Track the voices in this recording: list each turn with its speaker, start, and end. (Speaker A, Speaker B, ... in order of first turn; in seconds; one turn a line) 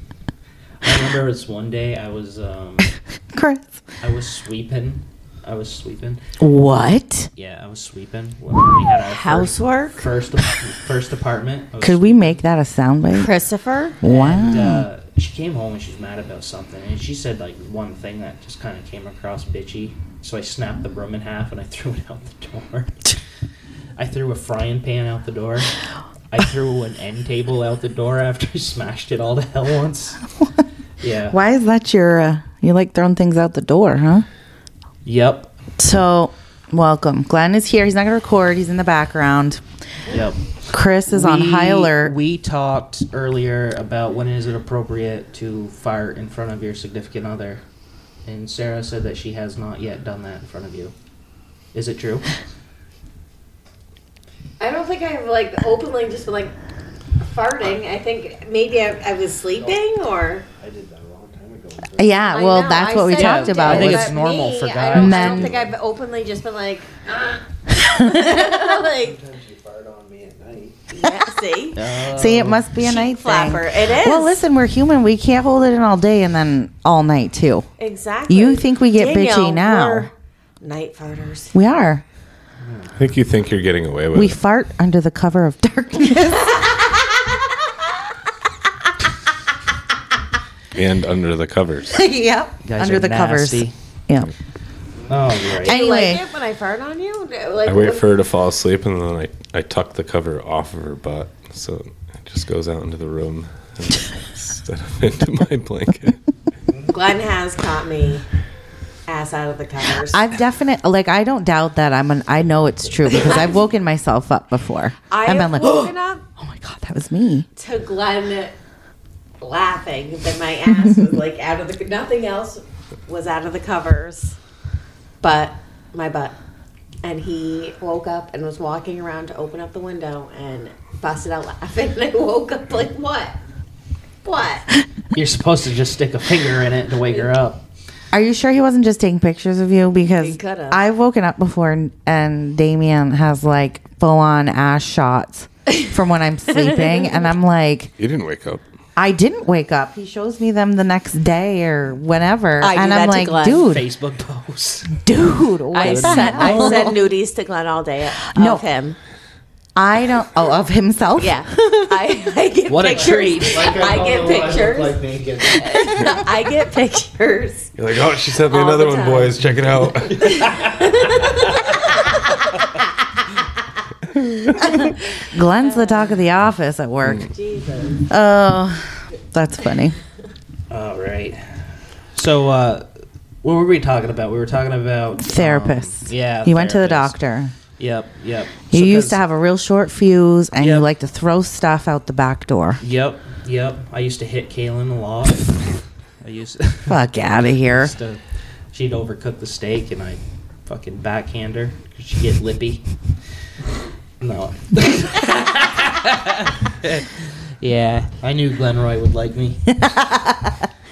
Speaker A: 0.8-2.9
Speaker B: 3.3-3.7
Speaker A: 4.0-6.2
Speaker B: 6.4-7.3
Speaker A: 7.3-12.4
Speaker C: 9.0-10.0
Speaker B: 11.8-13.3
Speaker C: 13.1-14.0
Speaker B: 14.0-14.8
Speaker A: 14.0-23.1
Speaker A: 24.0-25.7
Speaker A: 26.3-30.2
Speaker A: 31.0-31.4
Speaker B: 31.3-34.2
Speaker A: 35.0-35.5
Speaker B: 35.8-39.6
Speaker A: 40.1-40.4
Speaker B: 40.7-42.1
Speaker A: 41.1-47.6
Speaker A: 48.2-50.9
Speaker A: 51.7-52.3
Speaker C: 54.6-56.5
Speaker C: 57.2-60.5
Speaker D: 60.6-62.2
Speaker B: 62.0-64.1
Speaker C: 62.3-69.2
Speaker A: 63.1-65.6
Speaker B: 64.9-65.6
Speaker B: 67.8-68.3
Speaker D: 69.0-70.9
Speaker C: 70.9-71.8
Speaker A: 71.7-72.7
Speaker B: 72.1-77.7
Speaker C: 72.8-74.4
Speaker C: 77.8-80.1
Speaker B: 78.3-80.1
Speaker C: 80.6-81.5
Speaker B: 81.5-82.0
Speaker A: 82.6-83.0
Speaker E: 83.0-84.3
Speaker B: 84.1-87.2
Speaker E: 90.7-92.0
Speaker B: 91.9-94.3
Speaker A: 92.6-93.7
Speaker A: 95.1-95.8
Speaker C: 95.5-98.0
Speaker B: 95.6-96.2
Speaker E: 97.6-106.2
Speaker C: 106.9-108.2
Speaker C: 109.1-110.2
Speaker B: 110.1-117.5
Speaker C: 115.1-116.2
Speaker C: 117.5-118.5
Speaker C: 119.4-124.4
Speaker C: 125.2-126.3
Speaker C: 127.0-133.4
Speaker C: 134.2-134.7
Speaker A: 135.1-137.6
Speaker B: 138.1-147.9
Speaker C: 140.2-140.8
Speaker C: 146.7-147.2
Speaker E: 148.0-148.6
Speaker B: 148.9-153.8
Speaker C: 152.6-153.6
Speaker A: 153.5-155.0
Speaker B: 155.0-157.0
Speaker C: 155.7-159.0
Speaker A: 155.8-156.9
Speaker B: 158.3-158.6
Speaker B: 159.8-161.9
Speaker C: 161.2-167.7
Speaker A: 162.7-163.8
Speaker D: 163.0-165.9
Speaker E: 167.8-170.5
Speaker C: 168.5-169.4
Speaker C: 170.2-171.5
Speaker E: 174.2-174.5
Speaker B: 174.6-177.3
Speaker C: 175.2-176.2
Speaker C: 177.3-178.0
Speaker B: 178.1-180.0
Speaker A: 180.7-182.9
Speaker A: 183.4-187.2
Speaker B: 185.2-187.5
Speaker A: 187.8-189.2
Speaker B: 188.7-192.8
Speaker A: 190.6-190.9
Speaker A: 192.8-197.0
Speaker B: 196.9-197.9
Speaker A: 197.6-198.2
Speaker A: 198.7-202.8
Speaker A: 204.2-209.7
Speaker B: 209.8-210.5